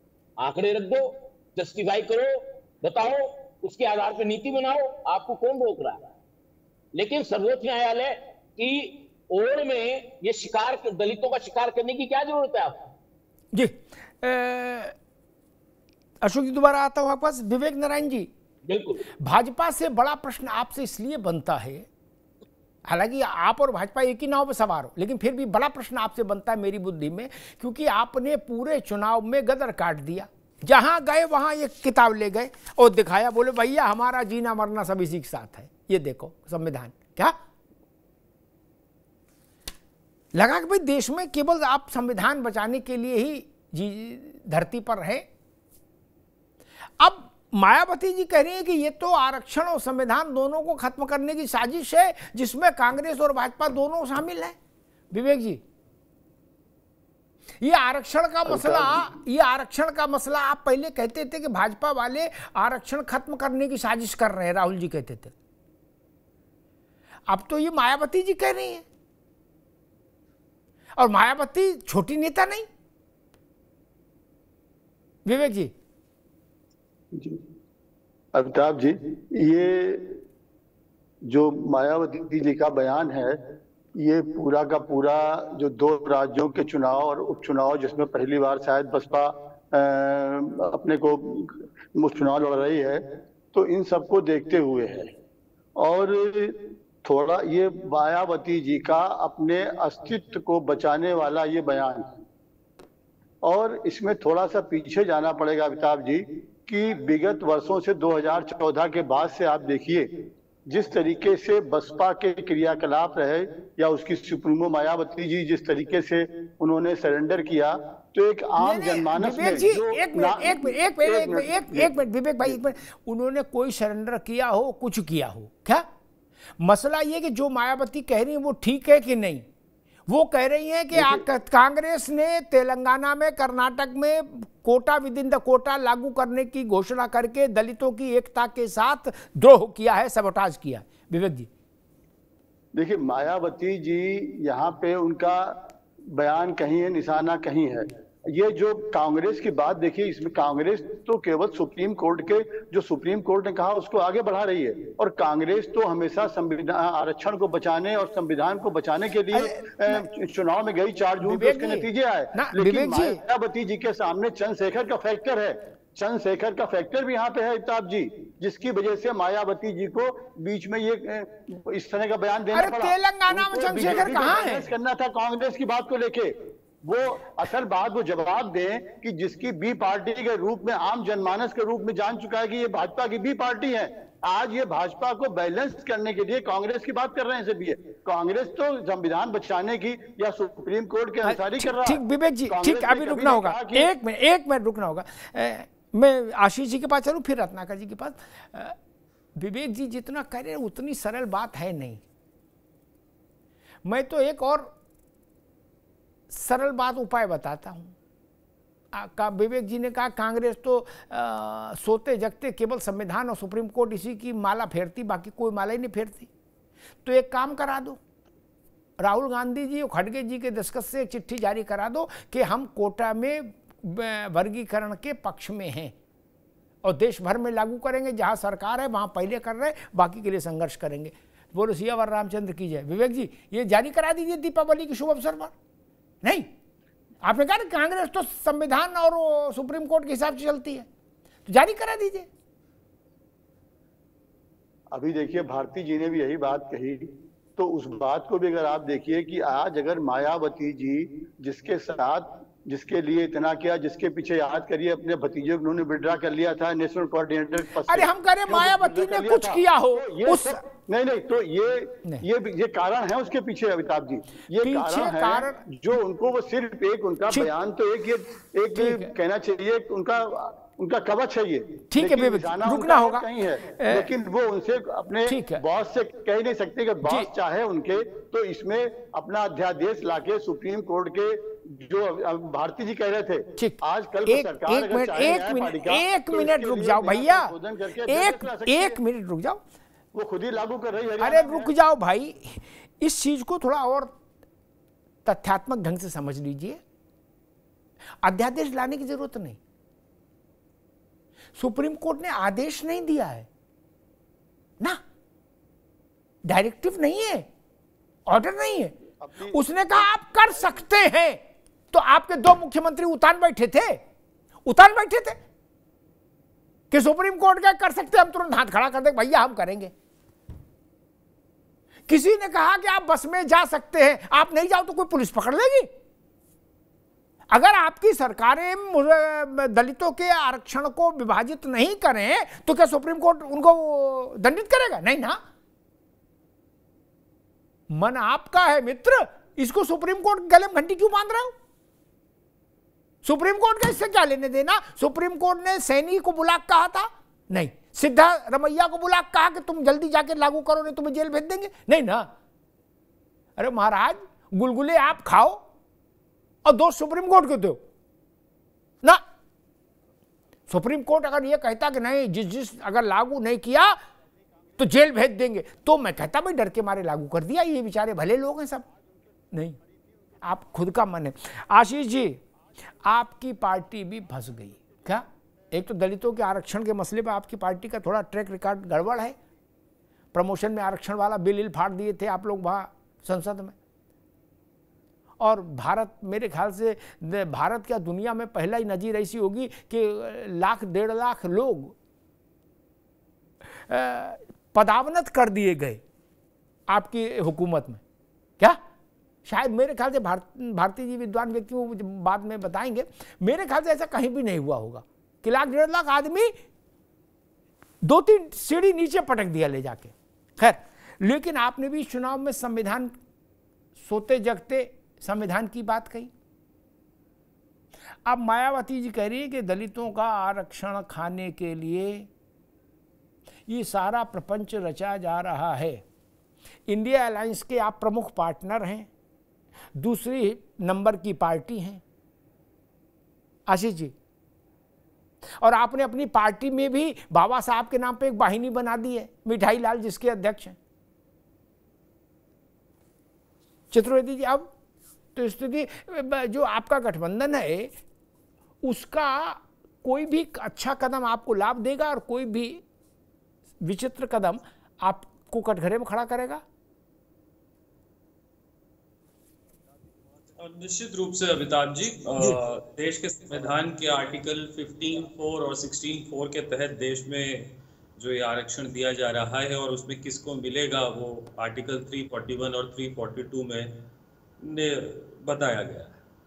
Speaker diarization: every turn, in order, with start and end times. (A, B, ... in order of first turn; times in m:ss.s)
0:00.4-0:06.1 A
0:06.9-0:12.9 A
0:13.5-0:14.9 B
0:16.2-0:18.3 B
0:18.7-0:19.1 A
0:19.2-0:21.9 B
0:22.8-0:37.4 B
0:40.3-0:45.2 B
0:47.0-0:54.6 B
0:55.1-0:55.6 B
0:57.6-1:05.3 B
0:58.6-0:59.0 C
1:07.3-1:08.8 B
1:11.0-1:12.7 B
1:15.2-1:15.7 B
1:17.1-1:17.4 C
1:18.3-1:20.2 C
1:21.2-1:23.4 C
1:24.0-1:35.1 C
1:35.8-1:42.1 C
1:43.4-1:50.1 C
1:50.7-2:02.6 C
1:58.6-2:05.9 B
2:06.6-2:09.4 B
2:10.1-2:21.5 B
2:10.9-2:11.2 C
2:22.7-3:13.9 C
2:39.3-2:40.1 B
2:41.2-2:43.2 B
2:52.5-2:54.7 B
3:11.2-3:18.8 B
3:19.3-3:22.0 B
3:23.8-3:24.7 B
3:26.3-3:27.9 B
3:28.9-3:36.3 B
3:37.0-3:38.0 B
3:39.0-3:45.9 B
3:46.8-3:55.5 B
3:56.2-3:56.5 B
3:57.2-4:00.9 B
4:01.4-4:02.3 B
4:04.9-4:48.9 C
4:17.8-4:20.6 B
4:24.6-4:25.6 B
4:28.8-4:29.1 B
4:31.9-4:33.2 B
4:33.8-4:34.1 B
4:35.3-4:35.6 B
4:43.6-4:47.5 B
4:48.0-4:49.6 B
4:50.1-4:51.7 C
4:51.2-4:54.1 B
4:55.2-4:56.8 B
4:58.2-4:59.6 B
5:01.5-5:03.5 B
5:06.4-5:07.5 B
5:08.3-5:08.9 B
5:09.2-5:09.6 C
5:09.5-5:14.0 B
5:14.6-5:15.4 B
5:16.9-5:19.9 B
5:22.1-5:25.9 B
5:27.5-5:35.4 B
5:37.9-5:41.5 B
5:43.2-5:52.3 B
5:53.6-5:55.6 B
5:56.6-5:57.8 B
6:00.7-6:04.0 B
6:04.8-6:08.8 B
6:09.5-6:09.8 B
6:10.4-6:19.4 B
6:20.3-6:23.7 B
6:25.4-6:31.9 B
6:33.6-6:36.0 B
6:36.9-6:38.0 B
6:39.4-6:46.6 B
6:48.0-6:53.2 B
6:54.0-6:56.3 B
6:58.2-7:02.3 B
7:03.7-7:06.0 B
7:06.9-7:09.1 B
7:10.0-7:12.0 B
7:13.7-7:14.1 B
7:15.6-7:20.8 B
7:23.9-7:24.7 B
7:25.3-7:27.9 B
7:28.8-7:32.8 B
7:33.8-7:36.6 B
7:40.6-7:54.0 D
7:54.6-7:56.1 D